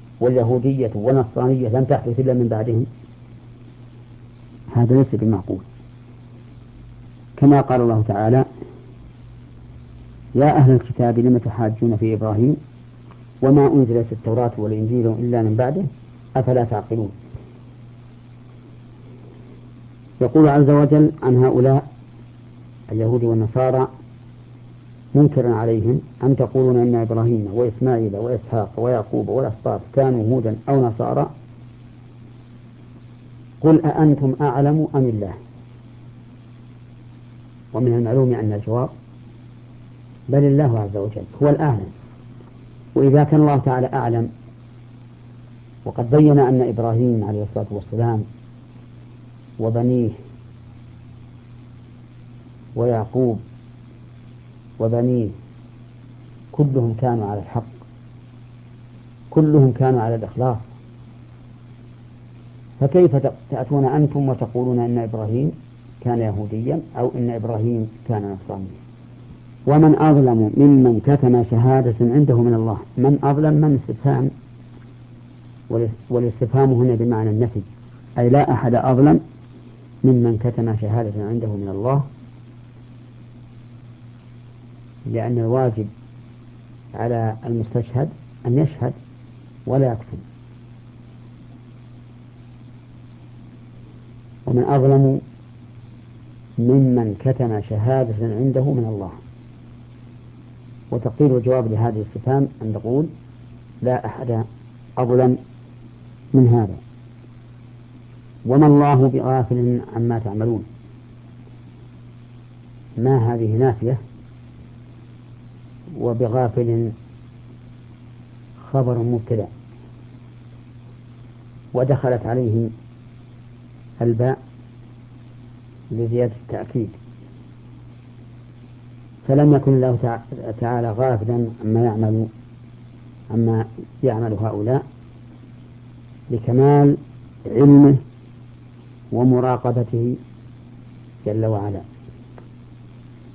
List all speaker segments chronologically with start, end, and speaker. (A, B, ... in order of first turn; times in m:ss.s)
0:00.2-0:02.9 A
0:04.7-0:05.6 A
0:07.4-0:08.4 A
0:10.3-0:12.6 A
0:13.4-0:17.2 A
0:20.2-0:21.8 A
0:22.9-0:23.9 A
0:25.1-0:31.3 A
0:33.6-0:35.4 A
0:37.7-0:38.9 A
0:40.3-0:41.9 A
0:42.9-0:44.3 A
0:45.8-0:48.2 A
0:49.6-0:50.2 A
0:52.7-0:53.4 A
0:54.8-0:55.3 A
0:56.5-0:57.7 A
0:59.3-1:00.7 A
1:02.8-1:08.8 A
1:09.6-1:14.3 A
1:15.7-1:19.2 A
1:20.0-1:22.1 A
1:25.0-1:25.9 A
1:26.9-1:29.0 A
1:29.6-1:30.2 A
1:34.4-1:35.2 A
1:36.6-1:39.2 A
1:40.9-1:43.1 A
1:43.8-1:44.4 A
1:45.0-1:45.4 A
1:46.3-1:46.8 A
1:48.4-1:50.7 A
1:53.0-1:54.0 A
1:55.9-1:56.9 A
1:58.6-1:59.5 A
2:01.7-2:02.7 A
2:04.0-2:04.4 A
2:05.9-2:07.0 A
2:09.2-2:12.3 A
2:13.3-2:14.8 A
2:16.3-2:18.0 A
2:19.1-2:20.2 A
2:21.2-2:21.9 A